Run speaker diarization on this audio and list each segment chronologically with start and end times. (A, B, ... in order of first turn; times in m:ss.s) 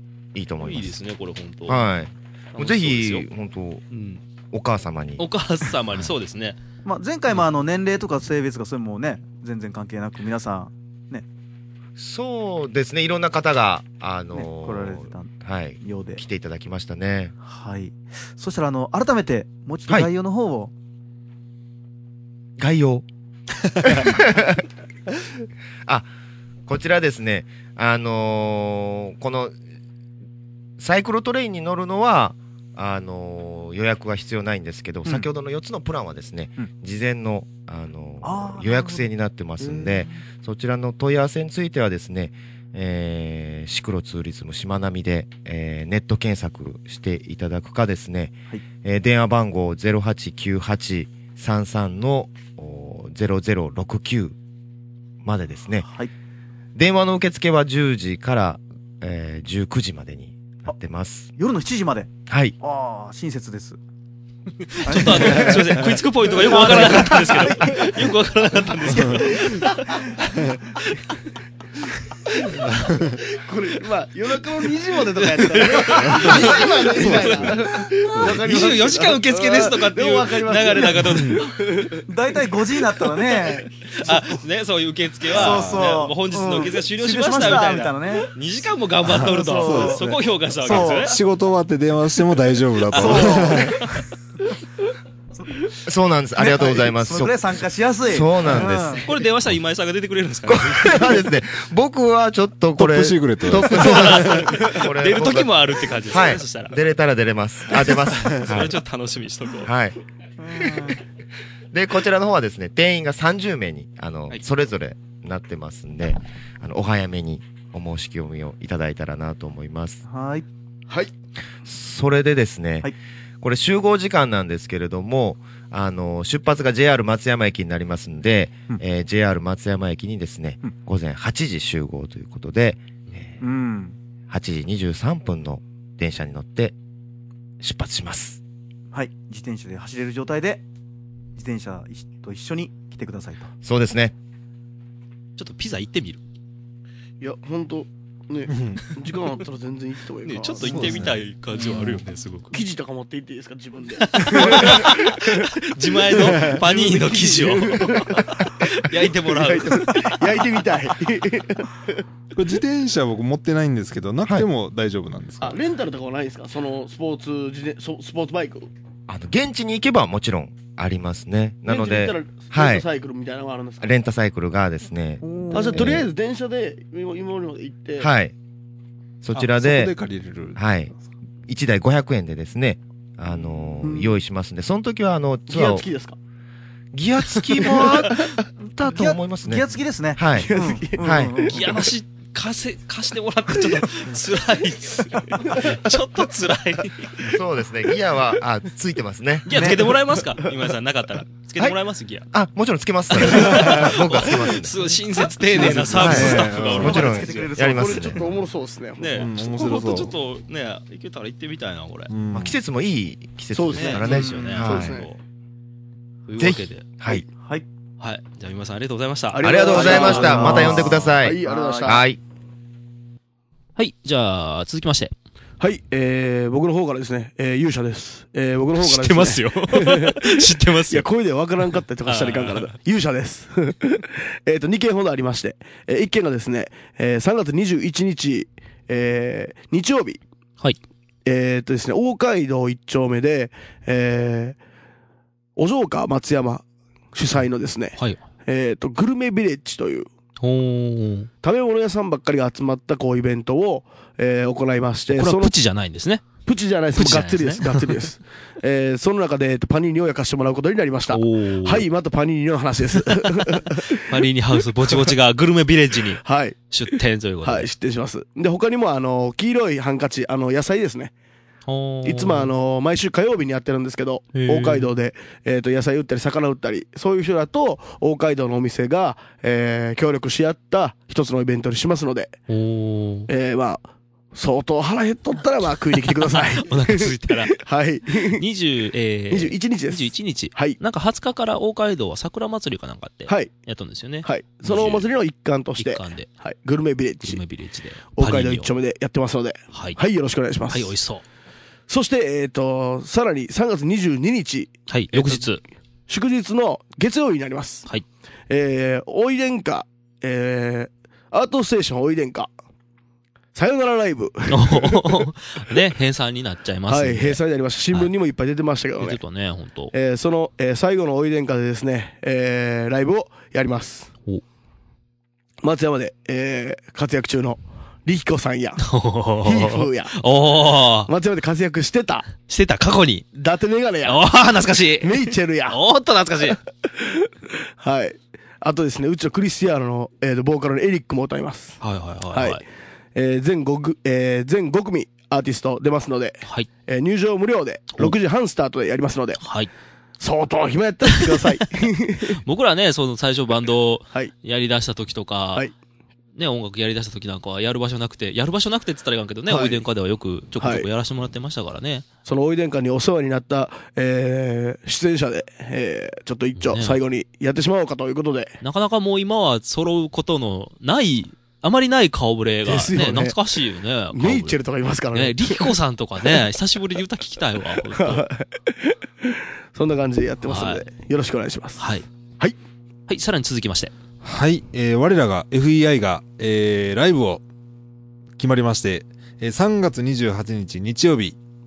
0:00.3-0:00.9 A
0:00.6-0:01.8 B
0:01.7-0:03.8 A
0:02.5-0:03.3 B
0:03.9-0:04.2 B
0:04.5-0:05.2 A
0:05.2-0:06.6 B
0:06.8-0:11.2 C
0:12.0-0:17.3 A
0:14.3-0:16.2 C
0:17.4-0:20.7 C
0:22.6-0:23.0 A
0:23.8-0:24.6 A
0:26.6-0:29.6 A
0:30.8-0:54.3 A
0:38.2-0:40.2 C
0:55.2-0:55.9 A
0:55.8-0:56.1 C
0:56.7-1:01.3 A
1:01.4-1:03.8 C
1:02.3-1:02.5 A
1:04.7-1:10.1 B
1:04.8-1:07.9 C
1:06.4-1:07.8 D
1:09.0-1:09.3 E
1:12.3-1:12.7 B
1:12.7-1:13.2 E
1:13.2-1:22.0 D
1:14.8-1:21.9 B
1:16.2-1:16.4 E
1:17.2-1:17.5 E
1:21.0-1:21.4 E
1:22.0-1:23.9 C
1:23.9-1:31.2 B
1:25.3-1:28.3 C
1:25.3-1:25.9 E
1:29.0-1:33.9 E
1:29.1-1:30.1 C
1:30.6-1:31.1 C
1:32.9-1:34.0 B
1:32.9-1:33.8 C
1:35.8-1:37.4 A
1:36.4-1:39.1 C
1:38.0-1:39.2 A
1:39.0-1:41.2 B
1:40.5-1:48.8 A
1:42.8-1:44.6 E
1:43.7-1:46.8 B
1:48.2-1:49.7 B
1:49.6-1:50.0 A
1:50.4-1:51.0 C
1:50.6-1:50.9 A
1:51.7-2:00.0 A
2:00.0-2:00.4 C
2:01.6-2:13.4 A
2:13.4-2:14.0 C
2:14.3-2:16.7 A
2:17.6-2:18.4 A
2:18.9-2:20.6 C
2:21.4-2:23.5 C
2:23.6-2:24.1 A
2:25.4-2:26.2 B
2:27.2-2:31.0 D
2:28.5-2:28.8 E
2:30.2-2:32.6 B
2:30.6-2:31.2 E
2:32.5-2:42.0 D
2:34.0-2:40.4 B
2:42.3-2:45.6 E
2:45.4-2:48.7 D
2:49.1-2:52.8 A
2:51.6-2:53.9 D
2:53.8-2:56.1 A
2:55.2-2:56.0 C
2:55.5-2:58.1 D
2:58.0-2:58.3 A
2:59.2-2:59.9 A
2:59.3-3:00.8 E
3:00.6-3:00.9 A
3:01.5-3:05.8 A
3:03.8-3:04.1 D
3:05.5-3:06.2 D
3:06.9-3:11.6 A
3:07.6-3:08.2 D
3:08.8-3:11.8 C
3:10.3-3:11.9 D
3:11.5-3:17.3 B
3:15.3-3:15.9 D
3:17.2-3:19.6 A
3:19.4-3:22.3 B
3:19.5-3:19.8 C
3:19.8-3:20.5 D
3:22.3-3:24.8 A
3:23.1-3:27.3 B
3:25.5-3:26.5 D
3:25.6-3:27.1 E
3:25.7-3:28.2 A
3:26.6-3:28.2 C
3:27.2-3:29.8 D
3:29.0-3:32.1 B
3:29.1-3:30.1 E
3:32.1-3:32.6 E
3:32.3-3:35.0 A
3:33.5-3:35.1 D
3:33.7-3:35.2 B
3:34.0-3:34.6 C
3:36.3-3:36.9 B
3:36.4-3:37.2 A
3:37.1-3:37.6 C
3:38.0-3:41.2 B
3:39.3-3:42.0 D
3:39.4-3:42.2 A
3:41.4-3:42.0 C
3:43.8-3:45.1 B
3:45.6-4:00.2 D
3:48.8-3:51.1 B
3:52.0-3:52.7 B
4:01.2-4:04.6 D
4:05.6-4:10.1 D
4:08.0-4:08.2 B
4:10.4-4:11.3 B
4:11.4-4:15.5 D
4:15.1-4:18.0 B
4:16.4-4:24.2 D
4:21.1-4:21.8 B
4:24.0-4:27.7 B
4:26.1-4:31.1 D
4:31.6-4:32.5 B
4:32.0-4:42.4 D
4:34.3-4:34.9 B
4:42.5-4:43.3 B
4:43.3-4:48.4 D
4:46.4-4:47.6 B
4:48.2-4:55.1 B
4:49.3-4:50.8 D
4:53.3-4:53.5 D
4:54.2-4:57.4 D
4:55.8-4:56.3 B
4:57.2-4:58.7 B
4:58.1-5:00.9 D
4:59.7-5:00.0 B
5:00.7-5:01.2 B
5:01.9-5:05.4 D
5:04.9-5:05.6 B
5:06.1-5:07.8 D
5:08.5-5:12.5 D
5:13.5-5:15.2 D
5:14.5-5:18.1 B
5:16.9-5:19.2 D
5:19.0-5:19.9 B
5:19.9-5:24.1 D
5:25.6-5:28.8 D
5:28.8-5:31.1 B
5:29.4-5:30.1 D
5:31.1-5:32.3 D
5:32.4-5:33.2 B
5:33.3-5:34.2 D
5:34.0-5:36.6 B
5:35.0-5:35.8 D
5:36.5-5:41.8 D
5:41.8-5:42.6 B
5:42.3-5:42.6 D
5:43.1-5:49.4 D
5:49.4-5:49.7 B
5:50.2-5:52.4 D
5:52.3-5:55.7 B
5:56.4-6:02.0 B
5:59.5-5:59.8 D
6:00.6-6:00.9 D
6:02.2-6:08.6 D
6:06.6-6:07.0 B
6:08.6-6:14.6 B
6:12.6-6:13.4 D
6:14.1-6:15.8 D
6:15.1-6:18.2 B
6:17.9-6:21.8 D
6:20.4-6:20.8 B
6:21.8-6:22.0 B
6:23.1-6:23.9 B
6:24.2-6:27.4 E
6:28.4-6:31.4 E